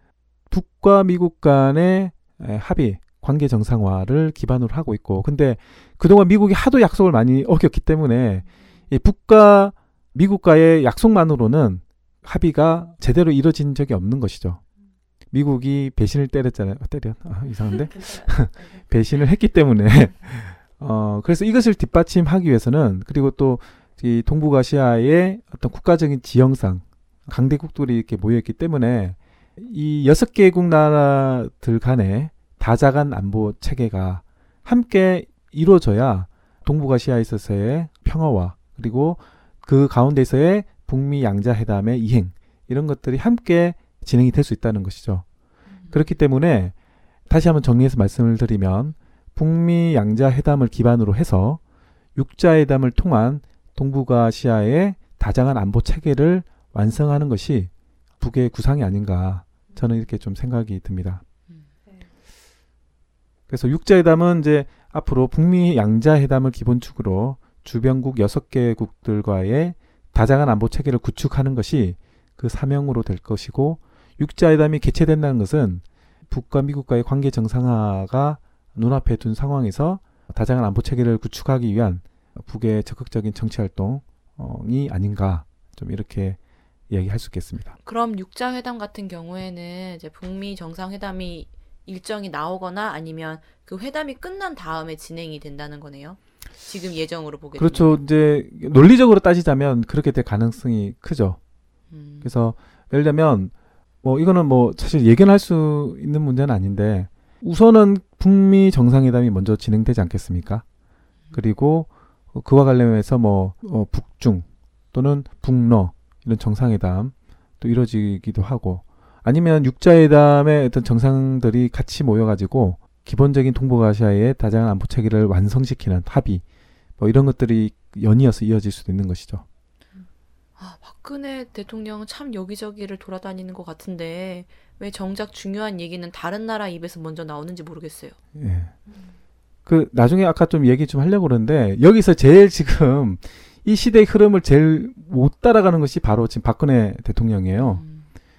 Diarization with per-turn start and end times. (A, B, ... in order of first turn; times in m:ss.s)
0:00.5-0:14.6 A
0:15.3-0:45.2 A
0:45.9-0:46.7 A
0:47.3-0:51.6 A
0:52.2-1:01.2 A
1:03.5-1:26.4 A
1:26.9-1:27.8 A
1:27.8-1:38.0 B
1:37.6-1:41.4 A
1:41.9-1:42.3 B
1:42.2-1:43.5 A
1:44.0-1:50.6 A
1:51.3-2:06.4 A
2:07.0-2:09.4 A
2:10.6-2:18.2 B
2:18.4-2:18.7 A
2:19.7-2:27.8 A
2:27.6-2:28.1 B